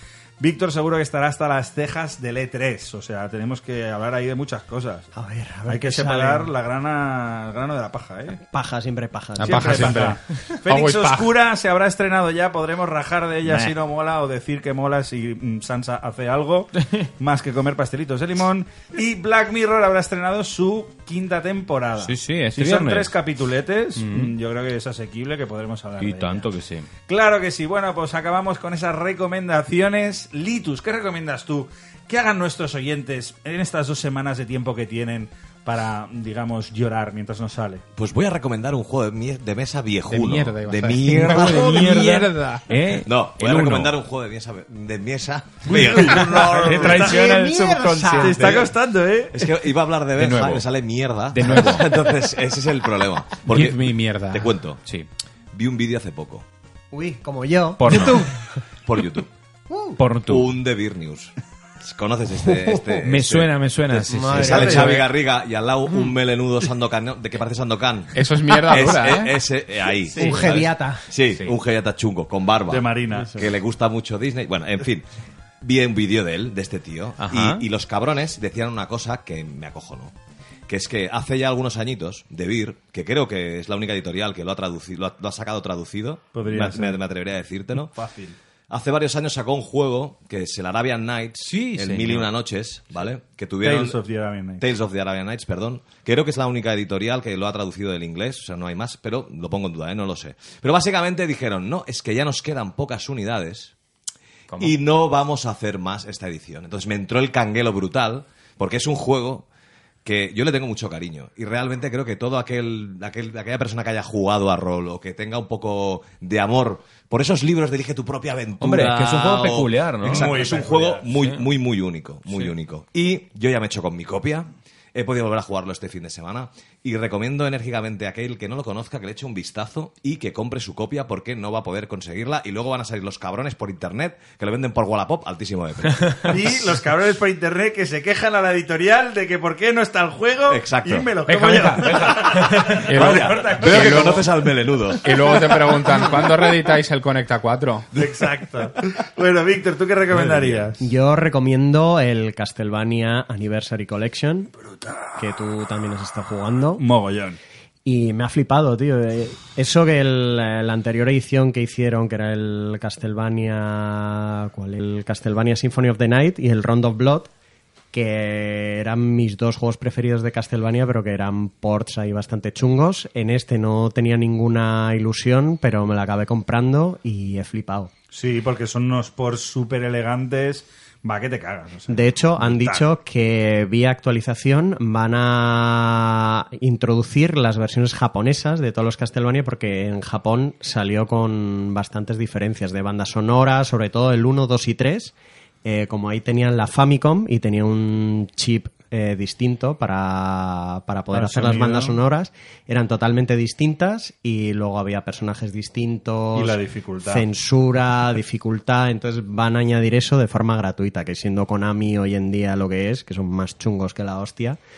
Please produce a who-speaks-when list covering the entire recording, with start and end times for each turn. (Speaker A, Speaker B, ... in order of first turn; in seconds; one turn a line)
Speaker A: 0.4-5.1
Speaker B: 5.2-6.5
Speaker A: 5.7-8.3
Speaker B: 8.5-10.2
Speaker C: 9.4-10.2
Speaker A: 9.5-26.4
Speaker C: 10.7-11.3
Speaker D: 22.0-23.1
Speaker D: 23.9-24.3
Speaker D: 26.0-26.9
Speaker A: 27.1-37.8
Speaker E: 37.9-41.7
Speaker C: 40.1-42.6
Speaker D: 41.0-44.0
Speaker E: 43.0-47.1
Speaker D: 45.6-48.4
Speaker A: 45.7-47.3
Speaker B: 46.9-48.6
Speaker A: 48.2-49.4
Speaker E: 48.4-48.7
Speaker E: 49.3-54.8
Speaker D: 50.2-50.7
Speaker D: 51.3-52.0
Speaker D: 53.5-53.7
Speaker C: 53.5-54.5
Speaker E: 55.5-56.5
Speaker B: 56.9-58.6
Speaker D: 57.8-58.3
Speaker E: 58.9-59.3
Speaker B: 59.7-60.0
Speaker D: 60.0-60.6
Speaker E: 60.3-70.3
Speaker B: 62.5-62.8
Speaker D: 63.0-65.0
Speaker B: 64.1-65.0
Speaker A: 64.3-64.9
Speaker C: 68.1-69.4
Speaker B: 70.1-71.0
Speaker D: 70.3-70.6
Speaker E: 71.1-75.1
Speaker A: 72.7-73.3
Speaker B: 73.2-73.4
Speaker E: 75.6-80.1
Speaker D: 77.2-77.6
Speaker E: 80.7-87.9
Speaker A: 86.3-87.0
Speaker A: 88.0-88.4
Speaker E: 88.7-94.0
Speaker D: 91.4-92.3
Speaker A: 93.6-94.7
Speaker E: 94.6-103.7
Speaker D: 104.5-104.8
Speaker E: 104.5-109.5
Speaker E: 110.0-136.4
Speaker D: 118.6-120.4
Speaker A: 120.0-121.1
Speaker D: 121.1-121.5
Speaker D: 122.3-122.5
Speaker A: 136.3-143.7
Speaker E: 140.5-141.1
Speaker D: 141.2-144.2
Speaker C: 142.8-144.3
Speaker E: 143.0-145.4
Speaker C: 144.9-147.9
Speaker A: 147.9-150.8
Speaker E: 150.3-150.7
Speaker B: 150.8-154.5
Speaker B: 155.2-156.8
Speaker A: 156.8-157.4
Speaker B: 157.8-167.3
Speaker B: 167.9-177.9
Speaker A: 178.1-182.8
Speaker B: 181.9-195.1
Speaker B: 195.7-214.6
Speaker A: 201.1-202.0
Speaker A: 206.3-207.2